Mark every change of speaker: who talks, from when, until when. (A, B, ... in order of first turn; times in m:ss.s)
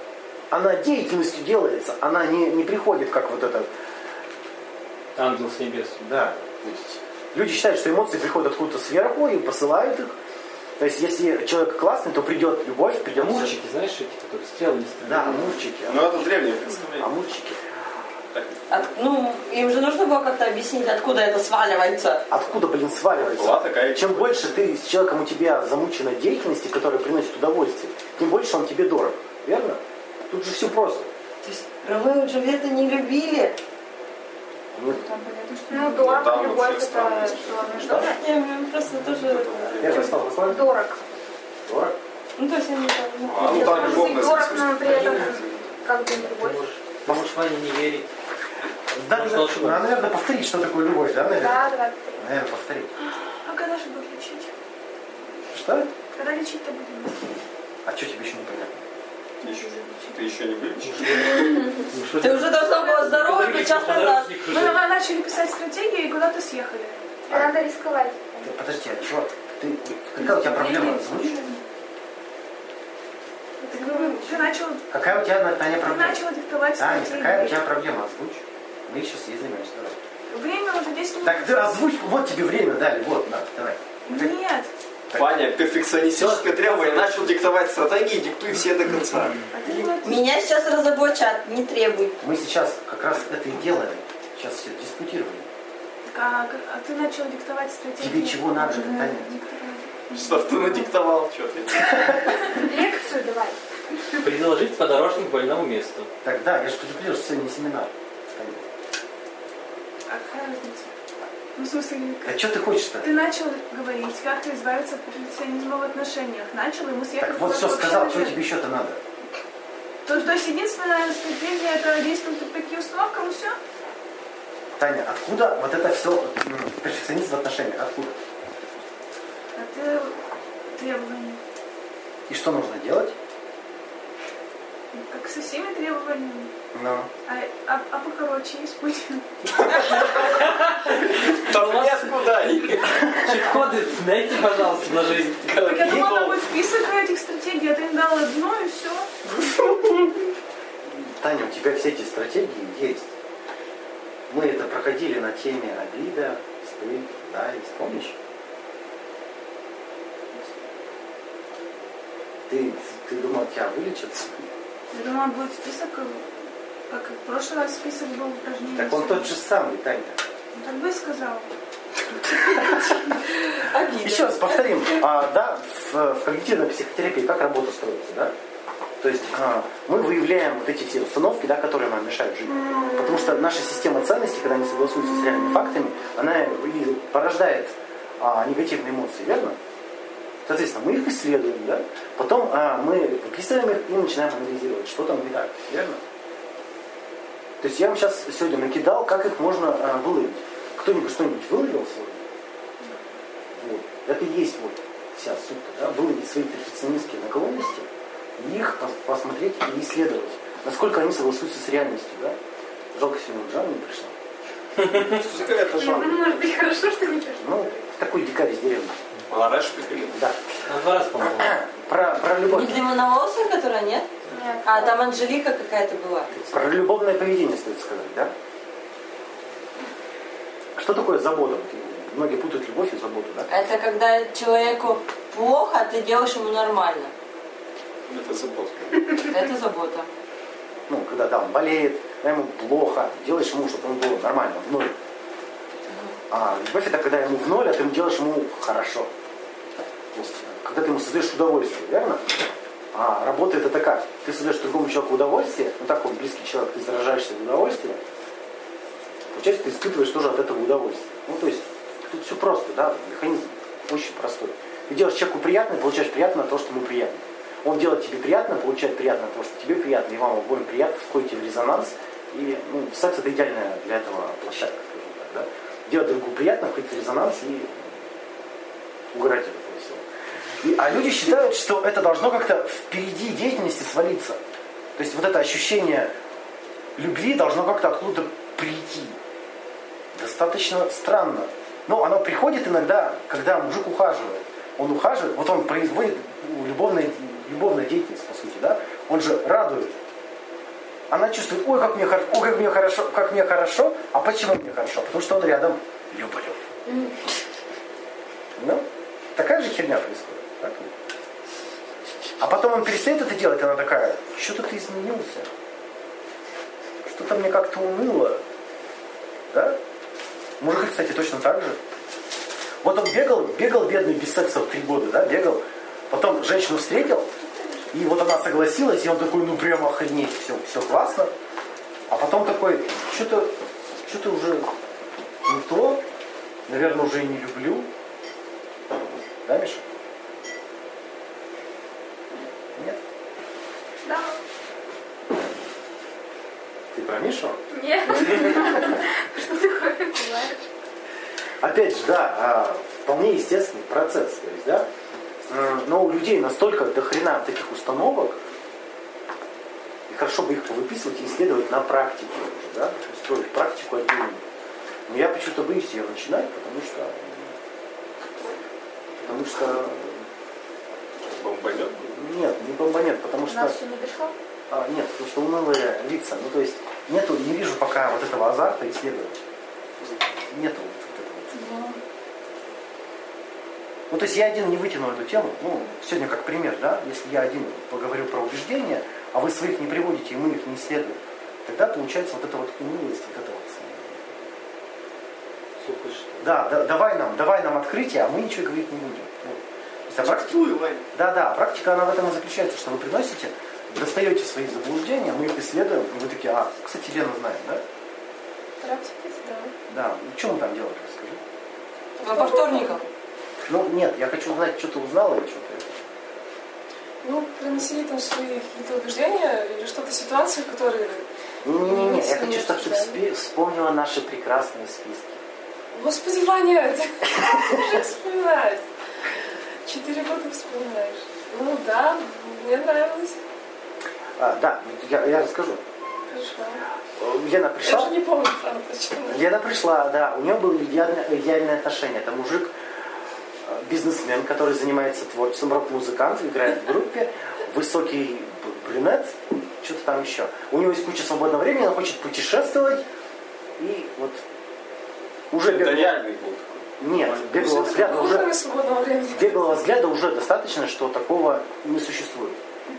0:00.5-0:03.7 A
0:05.2-0:06.0 B
0:06.0-0:10.2 A
0:10.8-0:13.6 A
0:13.1-0:15.5 B
0:15.0-0:16.1 A
0:15.8-0:17.1 C
0:17.0-0:17.6 A
0:18.3-0:18.6 C
0:18.7-0:22.2 D
0:22.3-0:31.1 A
0:23.1-0:24.4 C
0:31.4-0:33.6 D
0:34.7-0:35.0 A
0:34.9-0:35.9 E
0:35.7-0:38.2 F
0:35.9-0:38.0 C
0:37.8-0:38.1 A
0:38.0-0:40.0 D
0:39.1-0:40.2 C
0:39.8-0:40.6 A
0:40.4-0:41.0 F
0:41.7-0:42.0 A
0:42.4-0:44.1 D
0:43.2-0:45.7 C
0:43.4-0:46.6 F
0:44.9-0:45.2 B
0:46.1-0:48.1 B
0:49.0-0:52.9 A
0:49.1-0:49.8 B
0:51.4-0:52.2 F
0:53.4-0:54.5 E
0:55.5-0:55.9 A
0:56.1-0:57.3 E
0:57.8-0:58.8 A
0:59.4-1:00.2 E
0:59.4-1:01.7 C
1:00.8-1:01.4 B
1:01.9-1:04.8 B
1:02.2-1:04.3 D
1:04.5-1:07.2 E
1:07.3-1:08.5 F
1:08.4-1:11.4 A
1:10.2-1:11.6 E
1:13.6-1:14.3 F
1:13.7-1:15.1 E
1:14.9-1:16.2 A
1:15.7-1:17.7 E
1:16.7-1:20.0 A
1:20.3-1:21.7 E
1:21.2-1:24.3 A
1:24.0-1:24.7 E
1:25.1-1:27.3 A
1:25.1-1:29.8 C
1:29.5-1:30.3 E
1:30.0-1:32.2 D
1:32.2-1:35.5 A
1:36.1-1:40.9 E
1:38.0-1:39.3 A
1:40.1-1:42.2 C
1:41.8-1:42.2 A
1:42.5-1:43.6 F
1:44.2-1:46.1 B
1:46.2-1:48.6 A
1:50.1-1:50.9 E
1:51.6-1:52.4 E
1:52.2-1:53.1 A
1:53.0-1:58.4 E
1:57.2-1:59.0 A
2:00.0-2:03.6 E
2:04.8-2:08.2 A
2:09.6-2:10.1 E
2:10.7-2:11.4 E
2:12.3-2:13.1 A
2:14.9-2:16.5 E
2:16.7-2:17.1 A
2:17.3-2:19.3 E
2:19.6-2:20.3 C
2:19.7-2:25.5 B
2:21.4-2:22.9 C
2:25.4-2:26.4 C
2:25.6-2:29.1 E
2:30.9-2:33.1 A
2:34.3-2:38.2 A
2:42.5-2:44.5 A
2:44.9-2:46.3 E
2:46.9-2:49.3 E
2:48.7-2:50.2 A
2:50.5-2:51.5 E
2:52.5-2:52.8 A
2:52.6-2:55.0 D
2:54.0-2:58.3 A
2:59.0-3:09.6 A
3:10.4-3:16.0 A
3:17.6-3:22.2 A
3:23.5-3:27.9 A
3:28.4-3:32.4 A
3:32.9-3:34.1 A
3:34.8-3:35.1 B
3:35.0-3:36.6 C
3:35.8-3:37.8 F
3:37.4-3:39.0 A
3:39.3-3:40.2 C
3:40.7-3:41.6 B
3:41.2-3:42.9 A
3:42.4-3:44.1 D
3:44.3-3:45.0 F
3:44.6-3:46.3 D
3:46.5-3:48.3 A
3:50.8-3:53.5 A
3:53.5-3:57.1 D
3:58.1-3:59.2 C
3:59.2-4:00.1 D
4:00.9-4:04.9 A
4:05.9-4:06.2 D
4:06.3-4:09.1 A
4:10.1-4:12.2 A
4:12.9-4:18.0 A
4:19.3-4:38.0 A
4:39.1-4:40.0 A
4:40.6-4:44.4 A
4:45.0-4:46.1 A
4:47.0-4:49.2 A
4:50.1-4:59.9 A
5:01.1-5:06.6 A
5:08.6-5:08.8 A
5:09.4-5:10.9 A
5:12.4-5:15.5 A
5:17.0-5:18.4 A
5:19.5-5:19.8 A
5:20.6-5:21.8 A
5:22.8-5:27.3 A
5:27.9-5:31.3 A
5:32.1-5:33.5 A
5:34.1-5:34.7 A
5:35.4-5:36.0 A
5:36.7-5:37.9 A
5:39.4-5:39.8 A
5:44.0-5:44.4 F
5:46.9-5:47.6 A
5:47.7-5:50.6 F
5:51.6-5:54.9 A
5:55.5-5:58.4 A
6:00.1-6:04.4 A
6:05.1-6:07.6 A
6:09.2-6:10.3 A
6:11.2-6:12.2 C
6:12.1-6:13.8 A
6:13.5-6:14.3 F
6:14.7-6:19.4 A
6:20.5-6:21.5 A
6:21.6-6:21.8 G
6:24.1-6:34.3 A
6:35.8-6:36.4 B
6:36.4-6:40.6 A
6:40.2-6:41.0 C
6:41.1-6:47.8 A
6:48.8-6:49.7 G
6:49.9-6:51.4 A
6:52.2-6:53.1 D
6:52.2-6:53.0 G
6:53.7-6:56.0 A
6:57.2-7:01.3 G
7:01.6-7:05.4 A
7:01.8-7:03.2 G
7:05.9-7:08.8 G
7:09.8-7:13.4 G
7:14.4-7:15.8 A
7:16.3-7:16.8 G
7:17.2-7:18.2 A
7:17.8-7:19.4 G
7:19.3-7:22.7 A
7:23.6-7:33.0 A
7:33.8-7:34.4 A
7:35.5-7:36.2 A
7:35.6-7:37.3 C
7:37.0-7:38.5 A
7:37.4-7:39.8 G
7:39.3-7:42.6 A